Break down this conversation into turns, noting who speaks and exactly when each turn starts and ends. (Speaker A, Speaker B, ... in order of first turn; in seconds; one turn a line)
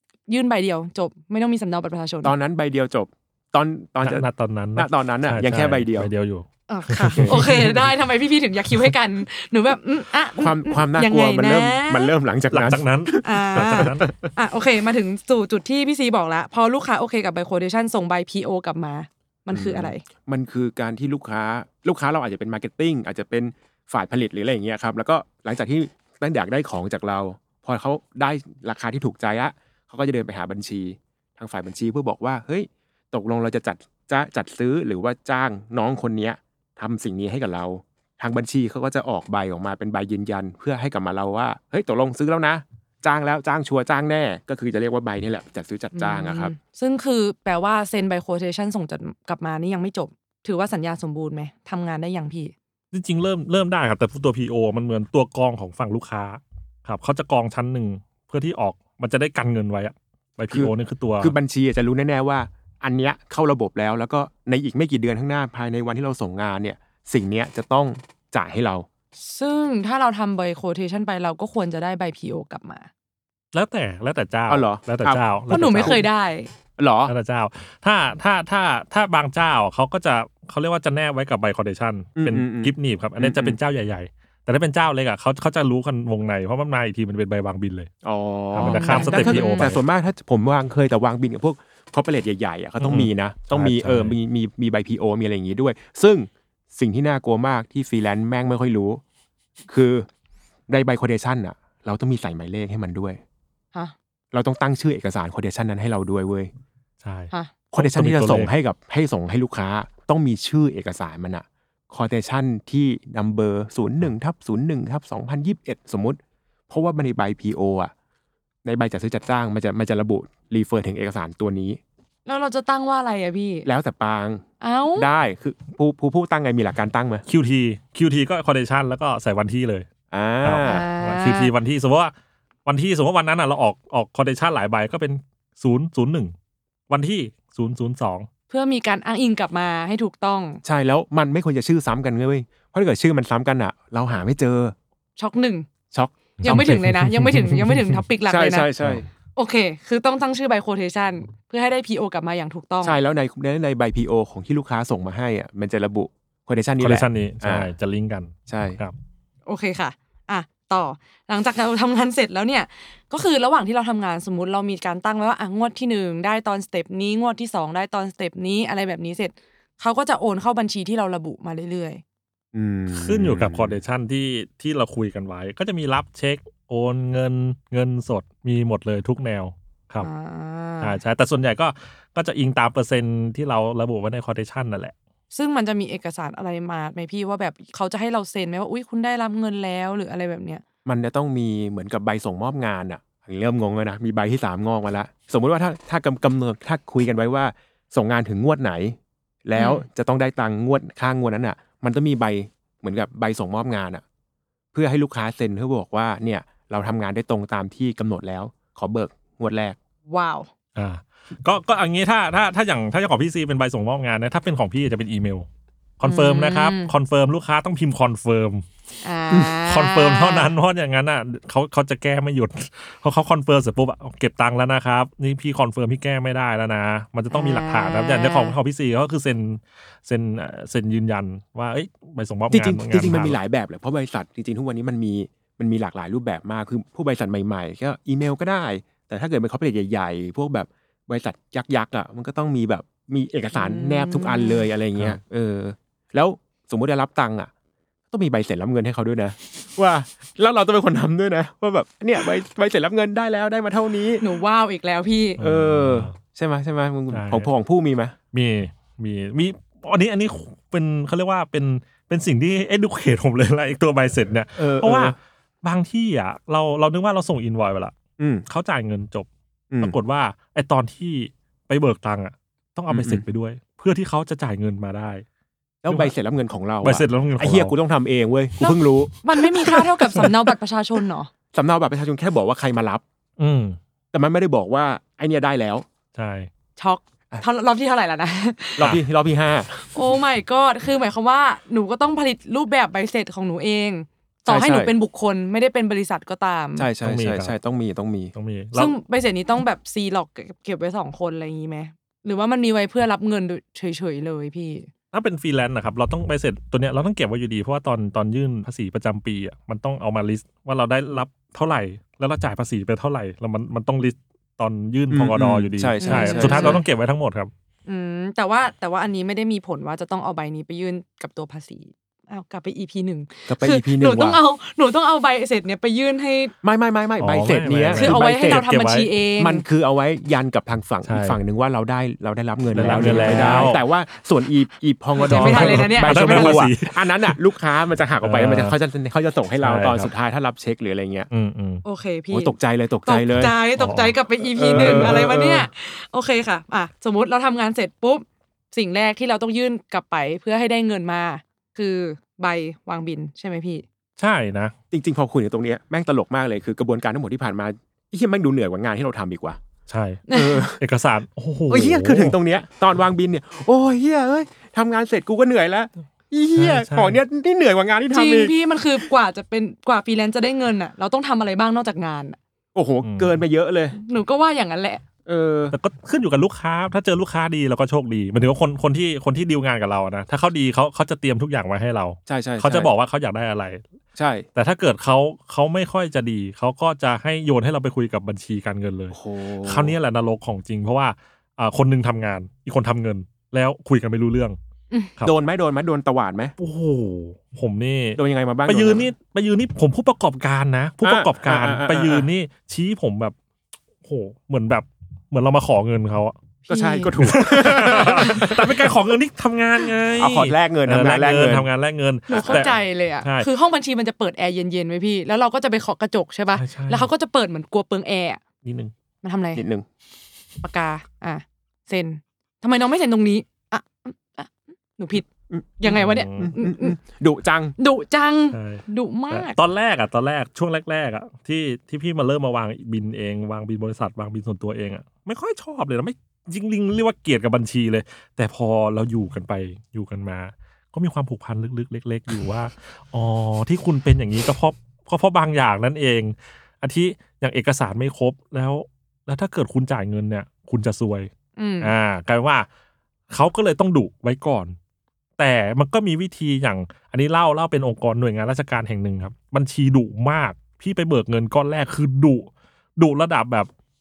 Speaker A: 0.3-2.3
Speaker B: 2.2-6.1
Speaker C: 4.0-7.8
Speaker A: 6.7-12.1
Speaker B: 7.1-7.7
Speaker B: 10.4-14.3
Speaker C: 12.5-14.0
Speaker A: 13.2-20.0
Speaker B: 19.5-46.5
Speaker A: 45.9-52.5
Speaker C: 52.9-61.3
Speaker B: 60.5-68.9
Speaker A: 69.2-72.9
Speaker C: 73.5-76.0
Speaker B: 74.5-76.0
Speaker A: 75.5-76.5
Speaker B: 76.8-77.1
Speaker C: 77.1-87.9
Speaker B: 82.2-83.6
Speaker B: 88.0-99.0
Speaker C: 88.5-89.8
Speaker A: 88.6-89.7
Speaker C: 92.8-94.2
Speaker B: 99.7-100.1
Speaker B: 100.7-103.2
Speaker B: 104.3-106.5
Speaker C: 107.0-108.5
Speaker B: 107.7-117.9
Speaker B: 118.6-121.8
Speaker A: 122.2-123.7
Speaker B: 123.6-127.2
Speaker A: 124.6-125.1
Speaker C: 127.3-129.9
Speaker B: 130.1-130.8
Speaker C: 130.4-132.1
Speaker A: 130.6-131.5
Speaker C: 132.7-136.3
Speaker C: 136.9-138.3
Speaker A: 138.5-140.6
Speaker B: 140.6-144.7
Speaker A: 145.2-145.7
Speaker B: 145.9-146.7
Speaker C: 146.4-148.0
Speaker A: 146.4-148.7
Speaker B: 148.3-149.1
Speaker A: 149.3-152.9
Speaker B: 152.8-157.7
Speaker C: 156.8-158.9
Speaker B: 158.5-158.8
Speaker A: 159.5-172.0
Speaker B: 172.5-173.8
Speaker C: 172.9-180.1
Speaker A: 180.0-181.0
Speaker C: 180.8-184.9
Speaker A: 185.3-190.6
Speaker B: 190.8-204.0
Speaker A: 199.6-199.8
Speaker B: 204.7-209.8
Speaker A: 210.1-210.5
Speaker C: 210.8-215.5
Speaker C: 216.0-218.7
Speaker A: 216.0-216.9
Speaker A: 219.0-220.5
Speaker C: 219.3-233.4
Speaker A: 227.3-228.6
Speaker B: 232.5-247.5
Speaker A: 243.5-244.7
Speaker B: 248.1-254.2
Speaker A: 254.2-255.4
Speaker C: 255.4-256.1
Speaker B: 255.4-258.1
Speaker C: 257.1-257.5
Speaker C: 258.3-267.9
Speaker B: 264.6-265.1
Speaker B: 268.2-268.4
Speaker C: 268.5-269.3
Speaker B: 269.7-269.9
Speaker C: 269.8-275.2
Speaker B: 272.9-273.2
Speaker B: 275.8-280.3
Speaker C: 276.8-277.7
Speaker A: 278.6-281.3
Speaker B: 281.5-283.0
Speaker C: 283.4-283.8
Speaker B: 284.1-285.9
Speaker C: 286.1-286.5
Speaker A: 286.8-288.9
Speaker B: 288.8-289.9
Speaker A: 289.9-296.9
Speaker B: 294.5-294.9
Speaker B: 296.8-298.3
Speaker C: 297.0-297.6
Speaker C: 298.3-298.9
Speaker A: 298.7-304.9
Speaker C: 305.1-317.5
Speaker B: 315.1-316.8
Speaker A: 316.0-316.8
Speaker A: 317.9-326.5
Speaker B: 323.5-324.4
Speaker B: 326.6-328.6
Speaker C: 327.2-329.1
Speaker A: 327.9-329.6
Speaker B: 329.4-341.3
Speaker C: 331.0-331.4
Speaker C: 332.7-333.8
Speaker A: 332.8-333.8
Speaker A: 335.2-336.6
Speaker C: 335.2-337.4
Speaker C: 338.2-338.8
Speaker C: 339.6-340.1
Speaker C: 341.3-341.8
Speaker A: 341.8-342.5
Speaker B: 342.3-343.5
Speaker A: 343.1-353.8
Speaker C: 343.8-344.1
Speaker B: 344.5-345.7
Speaker C: 344.7-345.2
Speaker C: 354.2-354.7
Speaker B: 354.9-359.6
Speaker C: 359.9-360.2
Speaker A: 360.3-360.6
Speaker B: 360.3-360.8
Speaker C: 360.8-362.4
Speaker B: 361.7-368.5
Speaker C: 366.6-367.2
Speaker A: 368.1-372.4
Speaker B: 372.7-373.9
Speaker C: 373.0-373.4
Speaker A: 373.9-375.0
Speaker B: 375.2-375.8
Speaker C: 375.7-383.8
Speaker B: 382.3-382.9
Speaker B: 384.1-384.5
Speaker C: 384.6-394.6
Speaker B: 389.1-389.9
Speaker B: 395.2-396.5
Speaker C: 396.6-403.3
Speaker B: 398.2-399.1
Speaker B: 401.0-402.3
Speaker C: 404.0-406.3
Speaker B: 406.7-408.9
Speaker A: 406.7-407.1
Speaker C: 407.2-413.5
Speaker A: 407.8-408.5
Speaker B: 410.1-411.7
Speaker A: 412.3-418.4
Speaker B: 412.3-412.8
Speaker C: 416.5-417.1
Speaker C: 418.6-418.9
Speaker A: 419.2-419.6
Speaker B: 419.5-419.9
Speaker A: 420.6-425.3
Speaker A: 425.8-427.0
Speaker C: 425.9-426.5
Speaker B: 426.4-427.7
Speaker A: 427.8-429.6
Speaker C: 428.5-451.3
Speaker A: 451.6-451.9
Speaker C: 451.8-452.6
Speaker C: 453.3-454.8
Speaker C: 455.4-463.7